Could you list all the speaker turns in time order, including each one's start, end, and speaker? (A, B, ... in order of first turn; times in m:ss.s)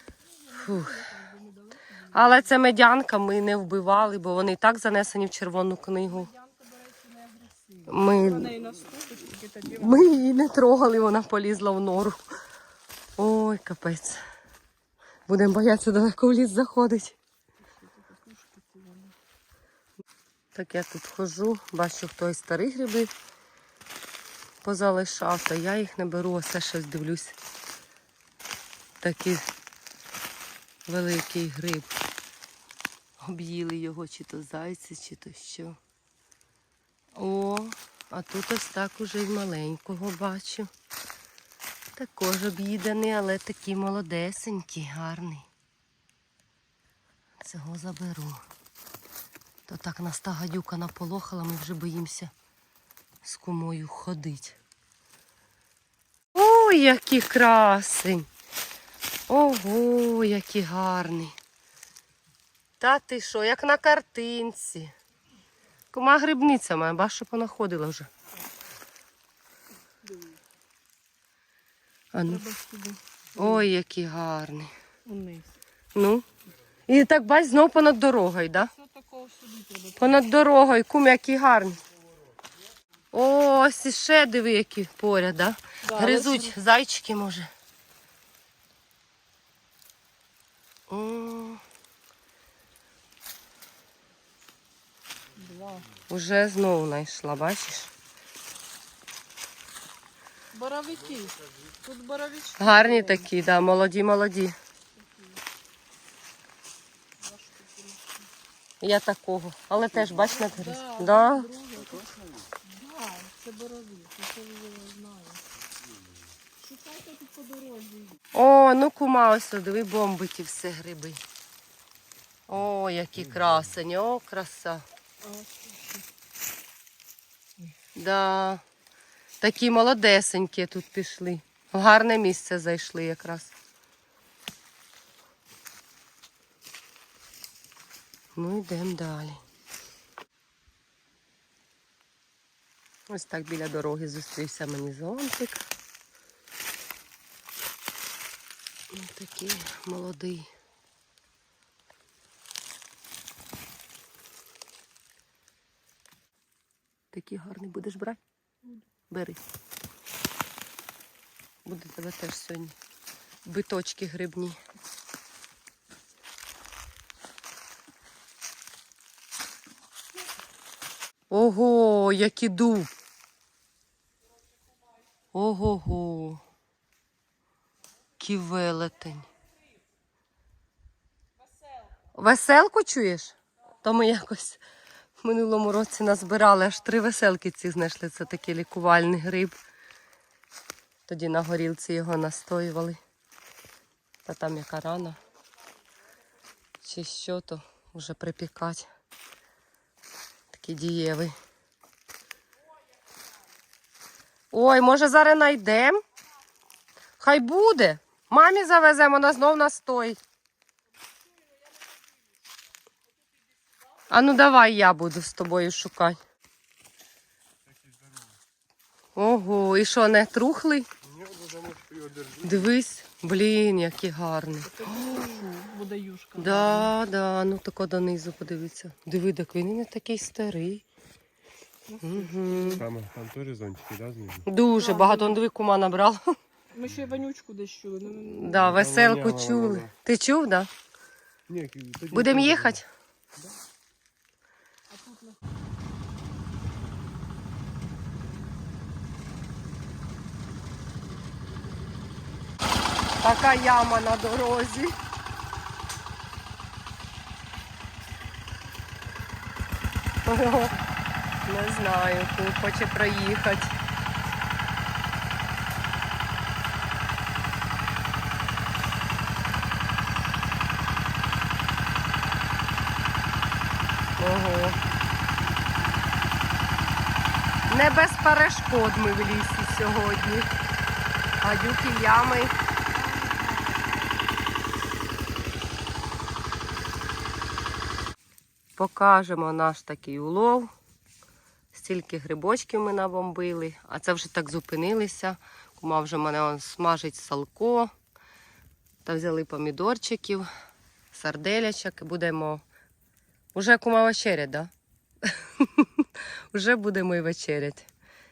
0:00.3-0:02.5 A
0:00.6-0:01.0 B
0:02.1-0:06.3 B
0:06.1-0:10.2 A
0:07.9-0:08.5 B
0:09.8-0:12.2 B
0:13.2-0:14.2 B
0:15.3-0:17.2 B
0:17.7-0:19.1 A
0:20.5-0:23.1 B
0:24.6-0:27.3 B
0:29.0-0:29.4 B
0:30.9-0:31.9 B
0:33.2-0:35.8 B
0:37.2-0:40.7 B
0:42.0-0:45.5 B
0:47.4-0:48.4 B
0:49.7-0:52.3 B
0:53.2-0:54.6 B
0:56.3-0:58.3 B
0:59.3-1:01.3 B
1:02.8-1:04.9 B
1:05.9-1:08.1 B
1:10.0-1:10.4 A
1:12.1-1:12.4 B
1:12.2-1:13.6 A
1:13.4-1:14.7 B
1:15.0-1:15.6 A
1:15.9-1:16.2 B
1:16.9-1:18.7 B
1:18.5-1:20.2 A
1:20.0-1:21.8 B
1:23.1-1:27.5 B
1:25.8-1:26.6 A
1:30.9-1:31.6 B
1:35.4-1:35.9 A
1:36.1-1:37.9 B
1:40.5-1:43.3 A
1:42.6-1:44.6 B
1:45.0-1:45.4 A
1:47.2-1:48.3 A
1:48.8-1:51.5 B
1:49.8-1:52.1 A
1:52.6-1:55.4 A
1:56.6-1:58.2 A
1:58.3-2:01.2 B
2:02.5-2:04.8 B
2:05.2-2:06.0 A
2:08.0-2:08.6 B
2:09.4-2:13.5 B
2:18.3-2:19.4 B
2:23.1-2:25.6 B
2:28.9-2:30.5 B
2:37.1-2:38.2 B
2:39.1-2:39.4 B
2:41.6-2:42.8 B
2:43.4-2:44.6 B
2:51.3-2:52.9 B
2:55.3-2:56.4 B
2:58.2-2:59.3 B
3:02.1-3:04.6 B
3:05.2-3:09.5 B
3:11.1-3:13.0 B
3:14.2-3:15.2 B
3:16.8-3:18.9 B
3:20.5-3:21.3 B
3:24.5-3:26.0 B
3:27.2-3:30.2 B
3:34.1-3:36.2 B
3:39.2-3:40.9 B
3:41.0-3:42.6 C
3:42.4-3:45.4 B
3:44.6-3:46.9 A
3:46.4-3:50.8 B
3:51.9-3:52.8 A
3:52.0-3:52.8 B
3:52.8-3:54.4 C
3:54.4-3:56.2 B
3:54.8-3:55.4 A
3:56.7-3:58.7 A
3:58.1-4:00.7 B
3:58.6-3:59.9 C
4:01.5-4:02.8 C
4:02.1-4:02.9 B
4:04.9-4:05.4 A
4:13.2-4:15.0 B
4:20.2-4:20.7 B
4:21.4-4:23.7 B
4:34.2-4:34.8 B
4:37.7-4:40.5 B
4:41.4-4:42.5 B
4:42.9-4:44.3 A
4:48.8-4:50.7 B
4:51.7-4:57.9 B
4:59.0-5:00.4 B
5:01.1-5:02.6 B
5:03.5-5:04.7 B
5:05.2-5:07.9 B